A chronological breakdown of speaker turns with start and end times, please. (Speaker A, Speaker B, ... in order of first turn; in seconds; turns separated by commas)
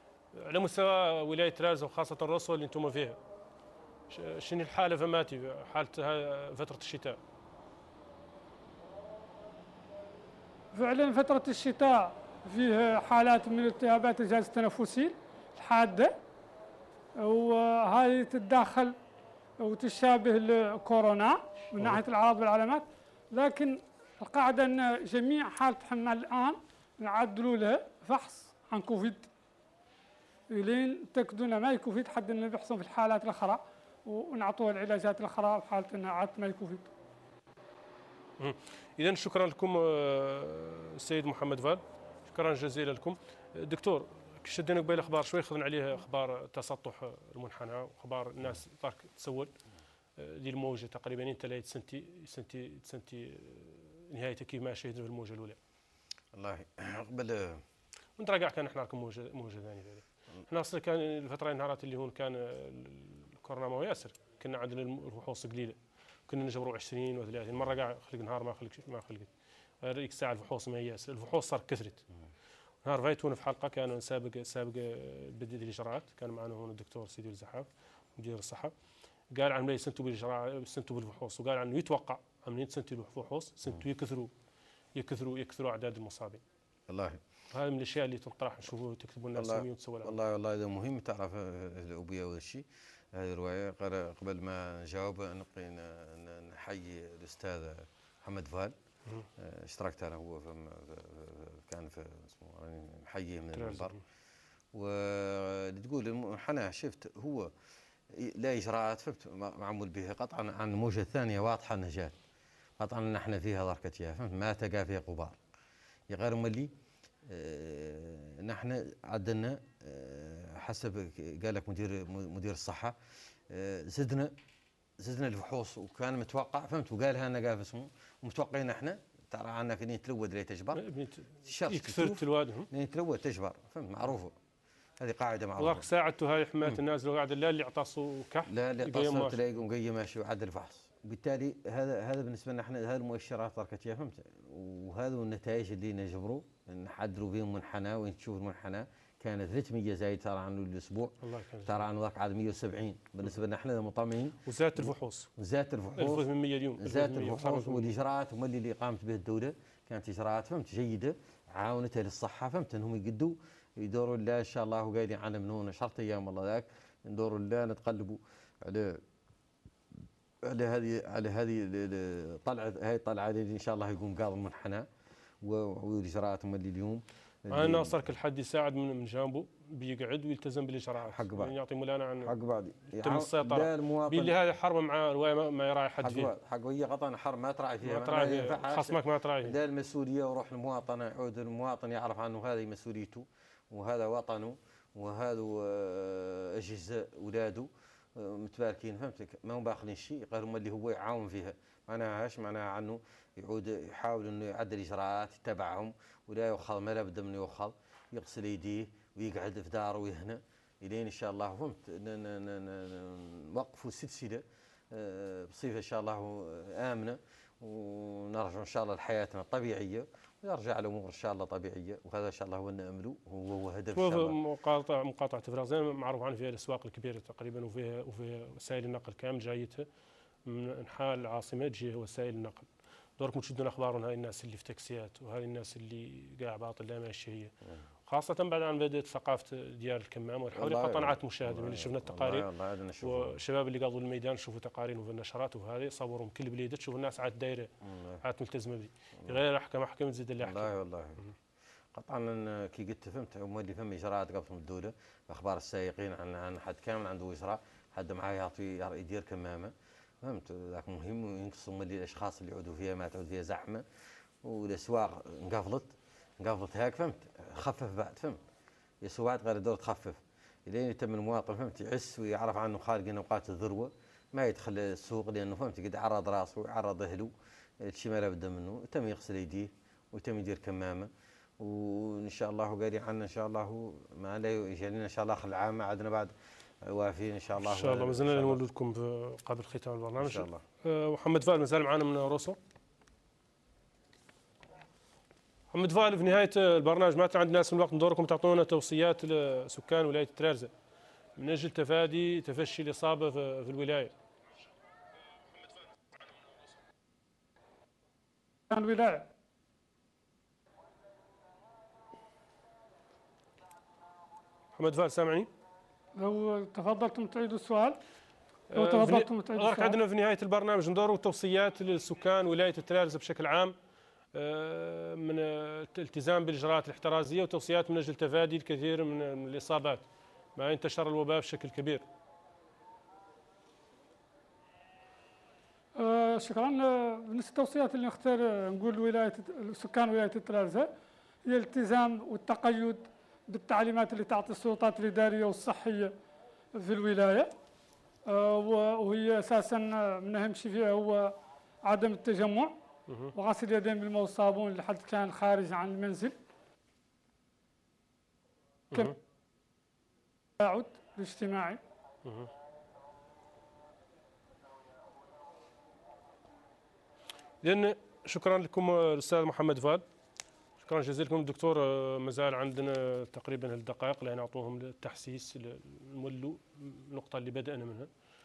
Speaker A: 0.4-3.2, Speaker A: 4.1-7.2, Speaker B: 10.7-16.1, Speaker B: 17.2-18.9, Speaker B: 19.6-29.3, Speaker B: 30.5-36.9, Speaker A: 38.4-49.5, Speaker A: 50.2-55.6, Speaker C: 56.3-57.6, Speaker A: 58.2-65.8, Speaker A: 66.3-69.3, Speaker A: 69.8-72.0, Speaker A: 72.8-78.7, Speaker A: 79.3-84.3, Speaker A: 85.0-86.4, Speaker C: 86.9-87.2, Speaker A: 87.5-90.2, Speaker C: 89.3-98.8, Speaker C: 99.4-104.0, Speaker A: 103.5-104.0, Speaker C: 104.7-107.5, Speaker C: 108.2-112.2, Speaker C: 112.8-115.4, Speaker C: 116.1-116.7, Speaker C: 117.3-123.0, Speaker C: 123.5-124.3, Speaker C: 125.0-130.8, Speaker A: 130.8-132.7, Speaker C: 131.5-134.3, Speaker C: 135.0-135.9, Speaker A: 135.6-139.4, Speaker C: 138.5-151.2, Speaker A: 151.2-151.8, Speaker C: 151.7-154.8, Speaker A: 154.5-155.3, Speaker C: 155.4-169.0, Speaker A: 156.0-157.9, Speaker C: 170.4-174.9, Speaker C: 175.4-178.0, Speaker A: 177.5-182.3, Speaker C: 181.0-181.5, Speaker C: 182.2-184.3, Speaker A: 182.9-186.3, Speaker C: 186.0-224.4, Speaker A: 187.8-189.6, Speaker A: 223.9-229.9, Speaker A: 230.5-237.5, Speaker A: 238.1-242.5, Speaker C: 240.5-243.4, Speaker A: 243.0-247.7, Speaker C: 247.8-248.2, Speaker A: 248.2-250.7, Speaker C: 250.4-251.2, Speaker C: 251.9-263.8, Speaker C: 264.4-268.4, Speaker C: 269.0-288.6, Speaker A: 287.6-292.6, Speaker C: 290.2-290.6, Speaker A: 295.7-300.7, Speaker A: 301.4-304.1, Speaker B: 308.7-309.3, Speaker A: 314.8-315.5, Speaker B: 316.2-318.0, Speaker A: 318.7-323.7, Speaker B: 318.8-320.0, Speaker A: 324.4-330.1, Speaker A: 330.6-332.1, Speaker B: 336.0-340.9, Speaker B: 341.5-346.1, Speaker B: 346.8-347.5, Speaker B: 348.3-351.3, Speaker B: 351.9-352.7, Speaker B: 353.4-356.4, Speaker B: 360.6-361.8, Speaker A: 362.2-362.5, Speaker A: 367.6-370.0, Speaker A: 370.8-378.1